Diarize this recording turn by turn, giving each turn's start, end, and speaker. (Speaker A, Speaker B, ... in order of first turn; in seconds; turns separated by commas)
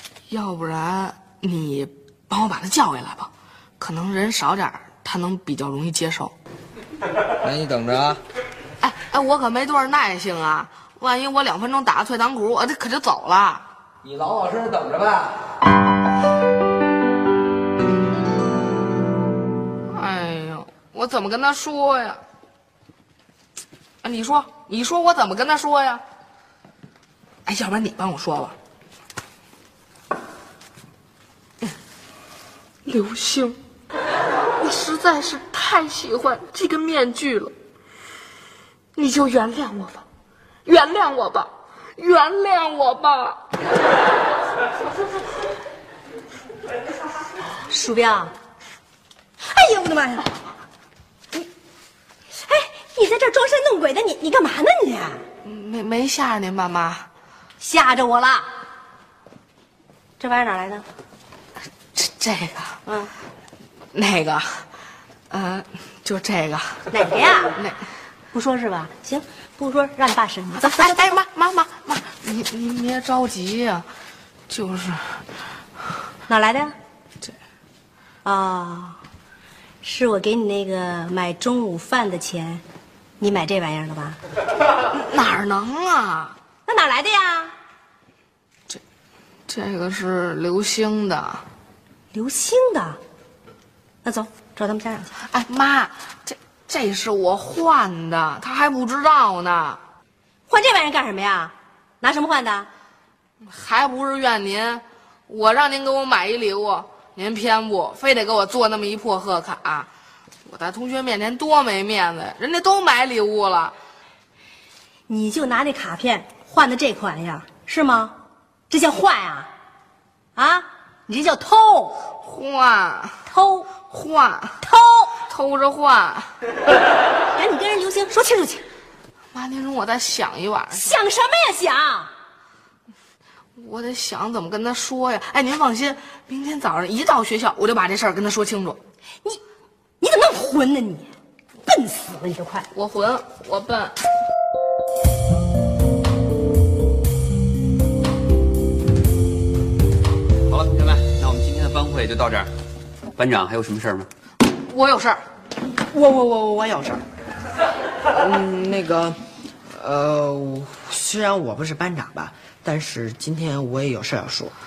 Speaker A: 0.3-6.3, Speaker B: 7.4-8.2, Speaker A: 8.8-13.7, Speaker B: 14.0-15.4, Speaker A: 19.9-22.2, Speaker A: 24.0-26.0, Speaker A: 27.4-28.6, Speaker A: 32.8-33.6, Speaker A: 34.6-37.5, Speaker A: 38.9-40.0, Speaker A: 40.6-43.4, Speaker C: 47.7-48.3, Speaker C: 49.4-50.3, Speaker C: 52.4-55.2, Speaker A: 55.4-57.1, Speaker C: 57.6-58.5, Speaker C: 60.2-60.8, Speaker A: 61.9-62.8, Speaker C: 62.9-63.1, Speaker A: 63.9-64.7, Speaker A: 65.3-66.9, Speaker C: 66.9-67.6, Speaker A: 67.5-67.8, Speaker C: 68.3-71.1, Speaker A: 70.6-73.8, Speaker A: 74.5-75.2, Speaker C: 76.3-76.7, Speaker C: 78.2-79.0, Speaker C: 79.8-82.6, Speaker C: 83.2-84.2, Speaker A: 84.9-86.3, Speaker C: 86.7-87.5, Speaker A: 89.5-91.4, Speaker C: 92.1-93.0, Speaker C: 94.0-95.1, Speaker A: 95.3-99.8, Speaker C: 100.5-102.7, Speaker A: 103.4-109.9, Speaker A: 110.4-113.7, Speaker C: 115.1-118.1, Speaker C: 118.7-119.5, Speaker C: 120.3-122.0, Speaker A: 122.2-123.2, Speaker C: 123.3-123.7, Speaker A: 123.8-124.6, Speaker C: 124.6-125.2, Speaker A: 125.2-126.3, Speaker C: 127.3-128.6, Speaker A: 129.3-131.0, Speaker C: 130.7-132.1, Speaker A: 133.6-138.8, Speaker C: 140.0-141.1, Speaker C: 141.7-142.7, Speaker A: 142.7-143.9, Speaker D: 150.5-152.5, Speaker D: 153.2-154.1, Speaker A: 154.6-155.2, Speaker E: 155.9-157.0, Speaker E: 158.1-159.2, Speaker E: 159.7-164.5